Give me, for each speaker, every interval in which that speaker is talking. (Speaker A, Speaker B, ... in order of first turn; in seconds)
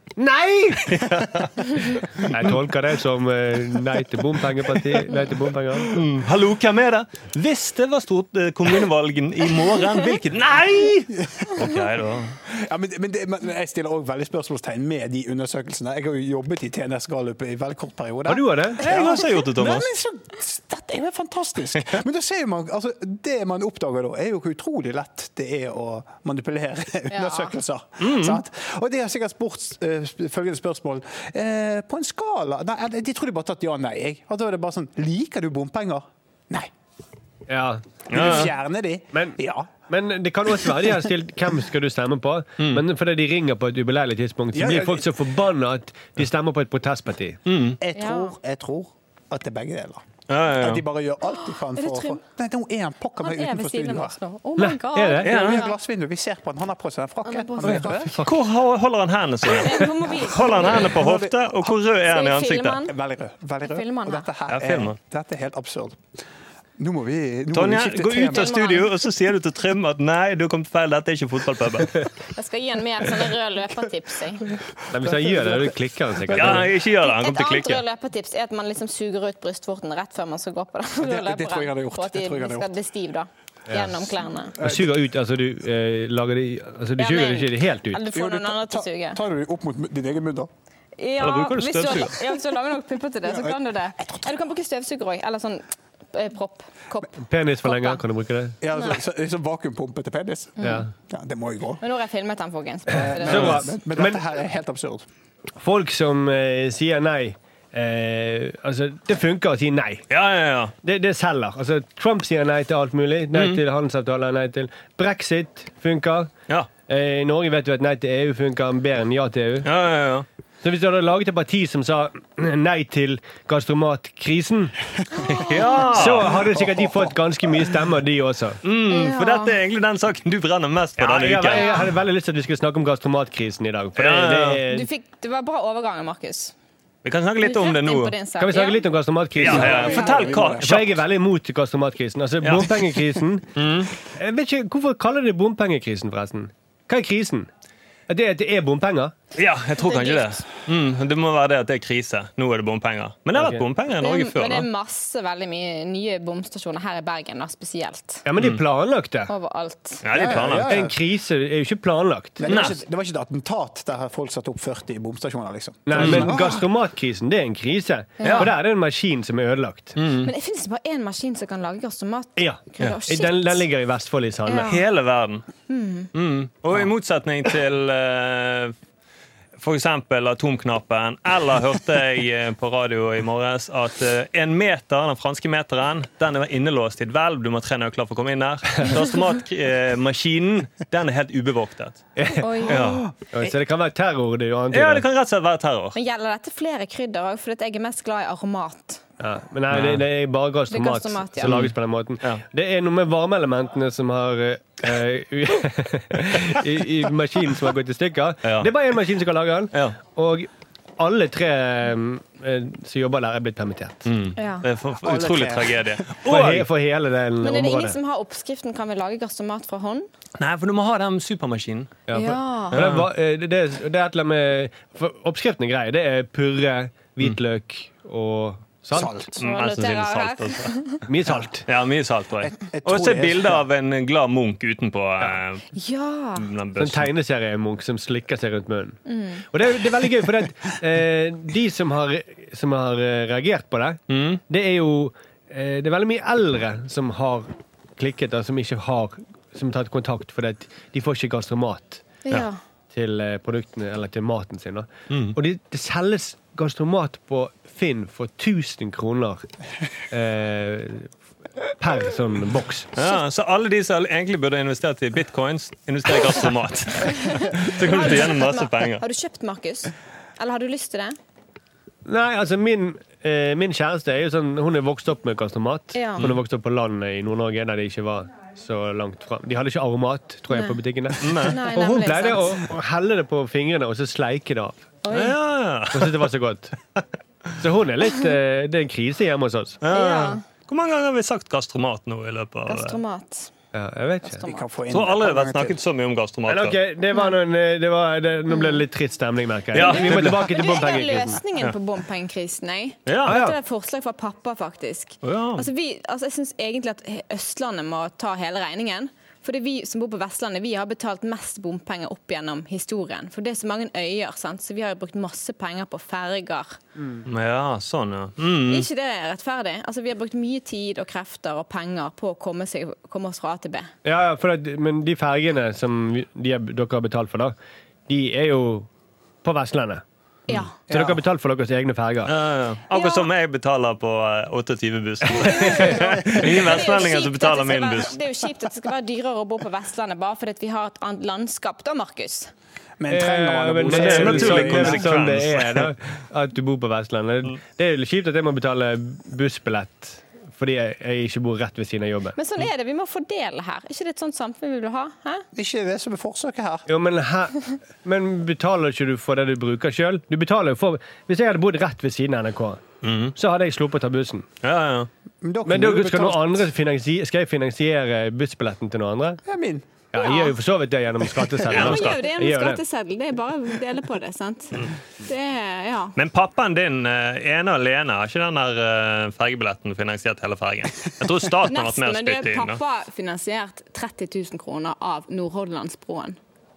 Speaker A: 0.2-1.1, 2.2-6.0, 18.2-18.9, 37.5-38.4, 39.1-39.4, 39.9-47.4, 54.6-55.4, 57.6-58.3, 74.9-76.7, 83.7-84.0, 84.6-88.0, 97.2-98.5, 100.6-100.9, 103.2-104.2, 105.6-110.0, 110.8-116.3, 116.9-119.7, 120.6-124.7, 125.9-128.6, 131.0-134.9, 138.4-143.5, 144.0-147.5, 148.1-149.1, 153.3-153.6, 158.2-159.3, 160.5-162.6, 165.9-170.0, 172.4-174.8, 192.2-192.7, 193.3-195.0, 199.2-214.1, 216.3-218.0, 222.1-229.3, 231.1-231.7, 236.8-252.1, 252.9-259.5, 260.1-261.1, 261.8-262.9, 272.1-284.8, 285.9-286.8, 287.6-289.8, 293.7-294.4, 296.5-301.4, 303.2-303.6, 317.0-317.2, 324.0-327.5, 328.1-328.9, 329.4-330.0, 330.8-332.4, 343.1-352.4, 356.9-362.8, 363.4-364.5, 365.6-369.4, 370.1-372.8
Speaker B: 0.9-2.4, 5.9-12.4, 18.8-19.9, 28.0-28.4, 38.1-38.5, 42.6-42.8, 47.5-47.8, 50.3-50.9, 55.2-55.7, 58.2-62.9, 64.5-65.0, 67.5-72.0, 76.3-77.8, 91.2-92.2, 103.3-103.6, 110.1-110.7, 113.3-113.6, 119.6-120.2, 125.3-126.4, 128.6-131.8, 134.0-134.6, 137.0-138.2, 139.4-141.0, 142.4-142.8, 143.6-143.9, 149.3-154.7, 160.0-160.8, 162.5-162.8, 166.0-166.3, 168.2-168.5, 170.0-170.3, 174.6-175.4, 176.1-178.8, 179.6-192.0, 192.6-193.1, 194.7-196.0, 199.7-200.0, 201.4-202.4, 208.4-208.7, 214.1-216.7, 220.4-221.9, 222.7-223.1, 229.4-230.7, 231.7-235.6, 236.4-237.1, 244.1-244.4, 255.1-255.4, 263.0-269.0, 281.2-281.6, 285.1-286.2, 289.8-293.0, 294.9-296.8, 299.7-300.6, 303.1-303.4, 305.2-305.7, 317.2-318.9, 332.2-338.1, 343.9-345.9, 363.0-363.3, 364.6-365.1, 371.7-372.2, 376.1-382.8
Speaker C: 12.5-36.7, 38.1-39.8, 44.5-45.1, 47.8-50.0, 50.6-54.2, 55.2-58.3, 60.4-61.8, 62.9-66.1, 66.8-68.5, 74.9-75.7, 76.3-76.6, 81.0-82.7, 84.6-84.9, 88.1-90.5, 93.3-94.2, 98.6-101.8, 102.9-105.0, 126.3-127.1, 139.4-140.9, 160.1-160.9, 162.4-166.7, 215.0-215.9, 228.9-229.4, 232.4-233.6, 294.4-295.8, 330.9-331.2, 343.0-345.3, 355.5-356.9, 365.4-366.6, 369.5-369.9
Speaker D: 27.1-27.5, 47.9-48.4, 51.3-52.2, 53.2-55.7, 57.2-58.1, 59.5-60.9, 62.1-62.9, 63.6-64.3, 68.3-68.9, 72.3-74.5, 77.0-84.6, 87.0-89.2, 91.0-98.0, 98.7-99.0, 100.6-100.9, 101.8-103.6, 125.2-125.8, 128.9-129.6, 131.5-131.9, 134.7-136.5, 137.4-138.9, 139.7-140.1, 149.8-150.4, 154.0-158.2, 159.3-160.1, 168.2-168.5, 170.2-173.7, 174.5-174.8, 175.7-176.1, 192.4-193.0, 195.9-199.0, 200.7-201.6, 214.4-214.7, 217.4-220.1, 222.1-222.8, 229.4-231.0, 235.7-236.5, 239.1-239.4, 252.2-252.6, 267.0-271.1, 275.9-276.2, 280.5-280.8, 281.4-282.6, 285.0-285.4, 289.9-290.4, 292.6-293.5, 294.2-294.6, 298.5-298.8, 299.8-316.8, 318.7-323.9, 332.9-333.3, 335.3-342.5, 352.4-355.5, 370.1-370.5, 371.7-376.1, 381.6-386.4